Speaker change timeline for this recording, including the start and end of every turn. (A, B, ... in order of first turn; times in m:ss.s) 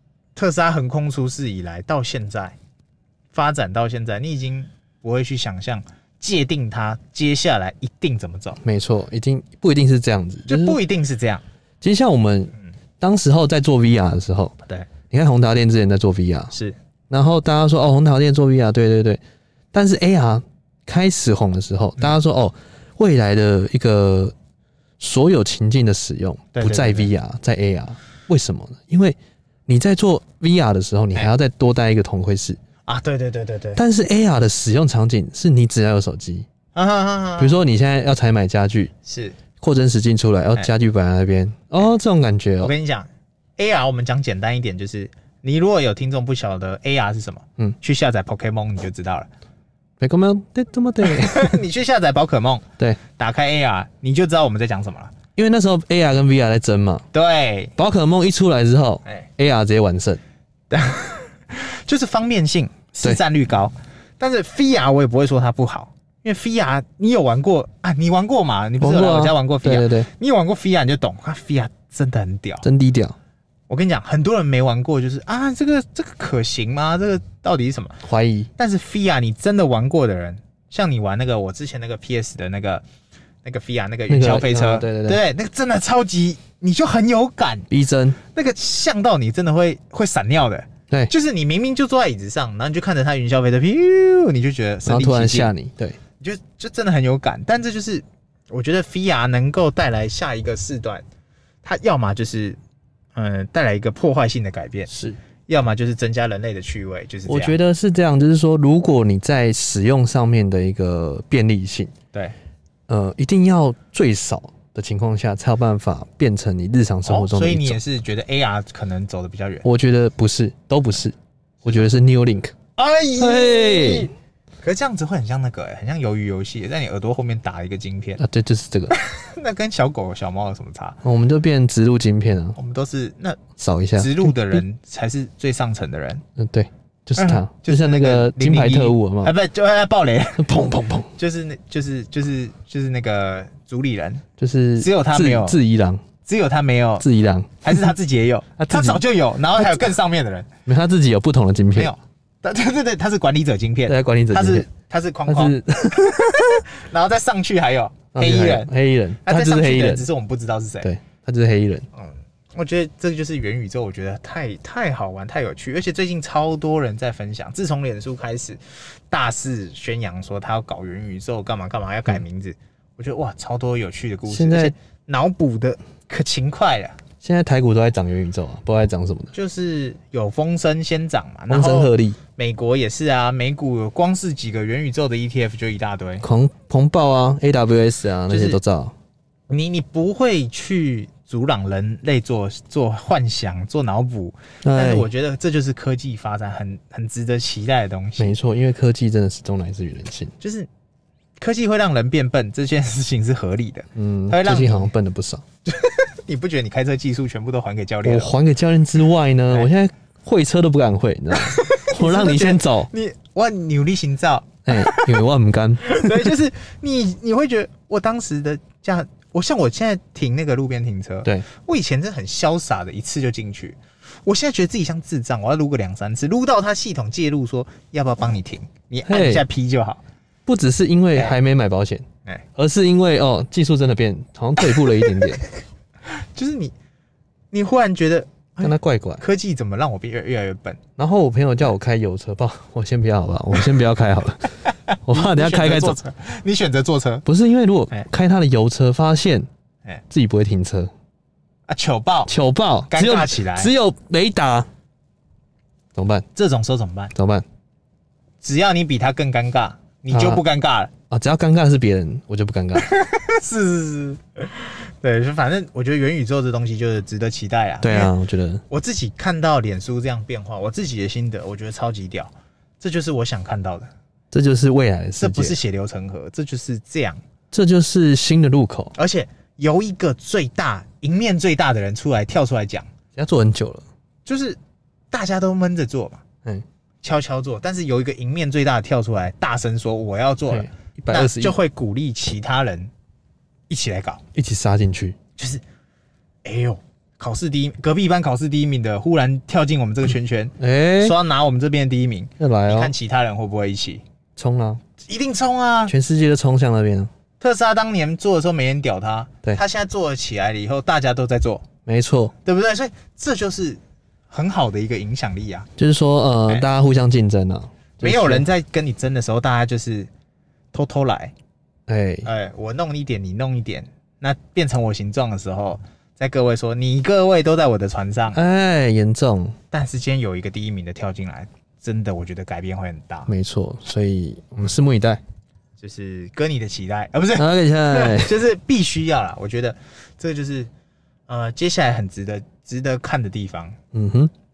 0:00.3-0:02.6 A
0:03.3-0:08.6 A
0:08.6-0:10.8 B
0:10.5-0:11.4 A
0:11.8-0:14.6 B
0:15.1-0:16.5 B
0:17.1-0:19.2 B
0:19.7-0:24.3 B
0:25.0-0:32.6 B
0:26.5-0:27.1 A
0:32.8-0:33.8 A
0:33.8-0:36.5 B
0:36.7-0:37.6 A
0:37.4-0:38.9 B
0:39.0-0:39.4 A
0:39.6-0:42.7 B
0:42.6-0:49.3 A
0:50.0-0:51.6 B
0:51.0-0:55.1 A
0:55.4-0:57.0 B
0:57.1-0:57.7 A
0:57.8-1:00.2 B
1:00.7-1:12.7 A
1:08.8-1:10.1 B
1:12.6-1:13.2 B
1:13.7-1:18.0 A
1:18.0-1:18.5 B
1:18.6-1:22.8 A
1:23.4-1:27.7 A
1:24.1-1:25.2 B
1:27.7-1:28.2 B
1:28.3-1:35.5 A
1:34.8-1:36.0 B
1:36.2-1:41.0 A
1:41.6-1:42.6 A
1:43.1-1:44.9 A
1:44.9-1:45.2 B
1:45.5-1:47.6 A
1:47.2-1:51.9 B
1:52.9-1:57.8 B
1:57.0-1:59.6 A
1:59.6-2:02.5 B
2:02.8-2:08.2 A
2:03.2-2:04.1 B
2:08.2-2:09.0 B
2:08.9-2:11.0 A
2:11.0-2:12.6 B
2:12.6-2:13.4 A
2:13.6-2:14.6 B
2:14.0-2:16.2 A
2:16.4-2:19.3 B
2:17.2-2:20.5 A
2:20.4-2:21.1 B
2:21.2-2:24.2 A
2:24.4-2:26.0 B
2:24.8-2:25.6 A
2:26.2-2:27.1 A
2:27.0-2:27.8 B
2:27.6-2:30.5 A
2:28.6-2:29.0 B
2:29.6-2:29.9 B
2:30.6-2:31.9 B
2:31.7-2:38.7 A
2:33.9-2:34.7 B
2:35.3-2:36.6 B
2:38.1-2:40.0 B
2:39.2-2:40.9 A
2:40.8-2:41.8 B
2:41.9-2:48.6 A
2:49.1-2:57.0 A
2:54.3-2:54.7 B
2:57.2-2:59.3 B
2:59.3-3:06.2 A
3:01.5-3:02.2 B
3:06.2-3:08.9 B
3:08.3-3:08.6 A
3:09.5-3:18.3 A
3:14.6-3:15.1 B
3:18.2-3:20.3 B
3:20.4-3:20.7 A
3:21.4-3:24.9 A
3:23.9-3:25.4 B
3:25.6-3:28.4 A
3:28.0-3:32.9 B
3:31.3-3:35.2 A
3:34.7-3:36.4 B
3:35.8-3:50.0 A
3:49.1-3:49.4 B
3:50.4-3:55.4 B
3:55.0-3:55.3 A
3:56.1-3:56.7 A
3:57.5-4:00.8 A
3:58.6-3:59.2 B
4:01.0-4:06.0 B
4:04.6-4:07.2 A
4:07.2-4:09.5 B
4:10.1-4:10.9 B
4:11.7-4:12.3 A
4:12.3-4:14.7 B
4:12.9-4:13.7 A
4:15.9-4:16.2 B
4:16.3-4:17.1 A
4:17.1-4:17.4 B
4:18.4-4:20.9 A
4:20.1-4:20.4 B
4:21.1-4:22.9 B
4:22.8-4:28.1 A
4:27.8-4:28.6 B
4:28.7-4:33.9 A
4:34.3-4:35.6 B
4:35.2-4:37.2 A
4:37.5-4:38.9 B
4:38.9-4:42.9 A
4:43.2-4:43.8 B
4:44.2-4:44.6 A
4:45.1-4:46.2 A
4:47.0-4:52.9 A
4:50.5-4:51.6 B
4:53.7-4:54.2 A
4:54.3-4:55.2 B
4:55.4-4:55.6 A
4:56.4-5:04.0 A
5:00.6-5:01.2 B
5:02.4-5:02.9 B
5:04.4-5:04.8 B
5:05.0-5:05.9 A
5:05.9-5:07.1 B
5:07.4-5:11.7 A
5:11.8-5:12.3 B
5:12.4-5:13.8 A
5:14.3-5:15.7 A
5:15.8-5:18.5 B
5:18.0-5:20.1 A
5:20.7-5:21.3 A
5:21.9-5:22.3 B
5:22.2-5:28.4 A
5:28.3-5:29.6 B
5:29.7-5:33.3 A
5:33.3-5:35.2 B
5:35.8-5:40.7 A
5:37.4-5:38.4 B
5:41.3-5:43.8 A
5:43.9-5:44.3 B